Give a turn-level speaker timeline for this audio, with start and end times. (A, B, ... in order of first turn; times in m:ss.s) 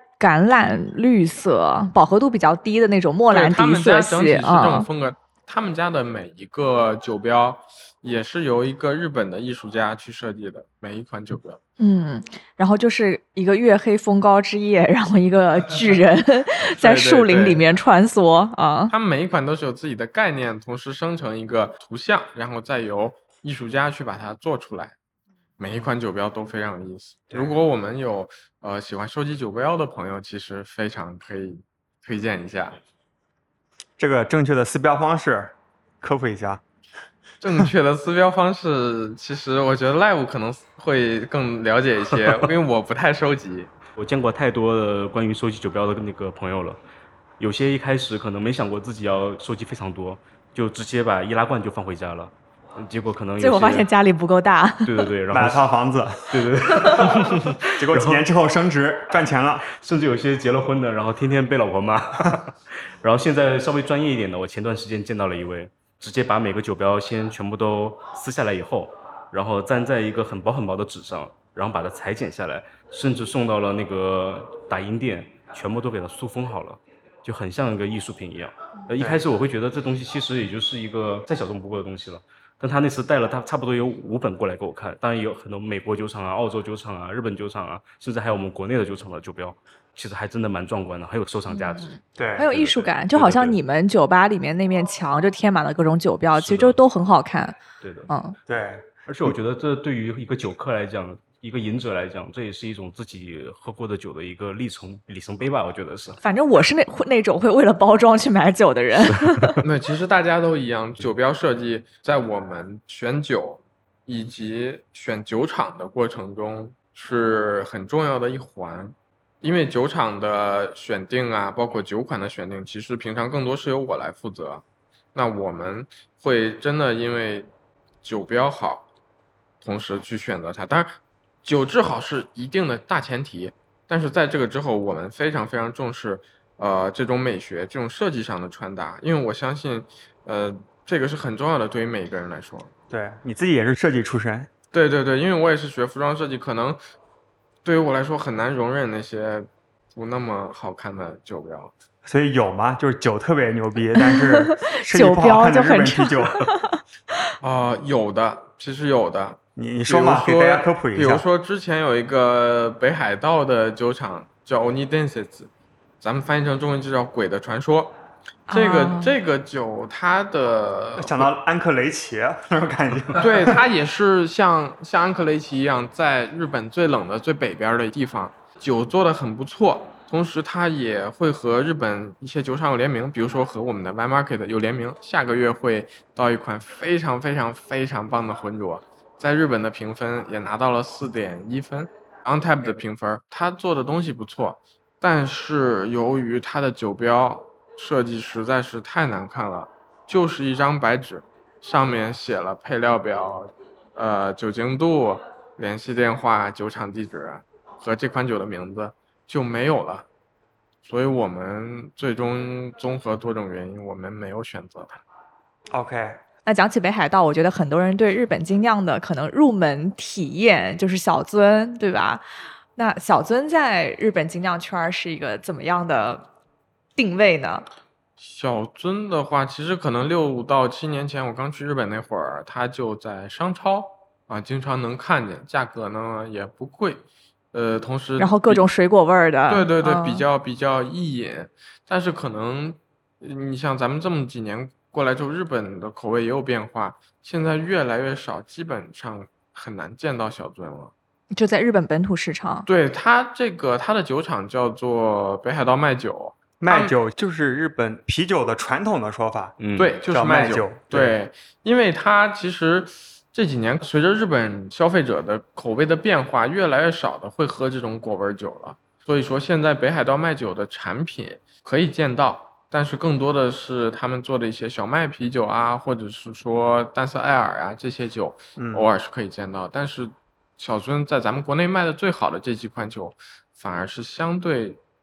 0:00.2-0:04.9 A
0:03.3-0:11.6 B
0:11.8-0:18.9 A
0:16.7-0:17.6 B
0:18.9-0:24.9 B
0:25.6-0:32.8 B
0:34.0-0:36.6 C
0:37.4-0:43.7 B
0:44.0-0:46.8 D
0:47.4-0:53.9 D
0:53.4-0:55.1 A
0:54.8-0:55.7 D
0:55.3-0:59.7 C
0:56.3-0:58.2 D
0:59.7-1:31.9 D
1:19.0-1:19.2 C
1:31.5-1:37.6 A
1:32.2-1:32.5 C
1:32.4-1:33.6 D
1:36.4-1:36.8 D
1:37.8-1:38.1 D
1:38.1-1:38.4 A
1:38.5-1:38.8 C
1:39.1-1:46.2 D
1:46.2-1:49.6 A
1:49.1-1:49.4 D
1:49.6-2:04.6 B
2:05.1-2:07.5 B
2:08.0-2:08.9 B
2:09.6-2:22.7 B
2:22.9-2:24.5 C
2:24.7-2:26.8 B
2:27.6-2:31.7 B
2:32.0-2:36.5 C
2:34.0-2:36.8 A
2:37.4-2:45.5 B
2:39.6-2:41.3 C
2:46.0-2:47.9 B
2:48.5-2:49.2 A
2:48.5-2:51.3 B
2:51.0-2:53.6 C
2:53.2-3:30.0 B
3:30.8-3:35.0 B
3:35.7-3:36.2 C
3:36.4-3:42.2 A
3:42.8-3:46.2 A
3:47.0-3:47.6 A
3:48.2-3:58.6 B
3:58.2-4:00.2 A
3:59.5-4:10.9 B
4:11.3-4:12.7 A
4:12.7-4:16.9 B
4:16.6-4:21.2 C
4:19.6-4:20.0 D
4:19.8-4:44.8 B
4:38.6-4:38.9 C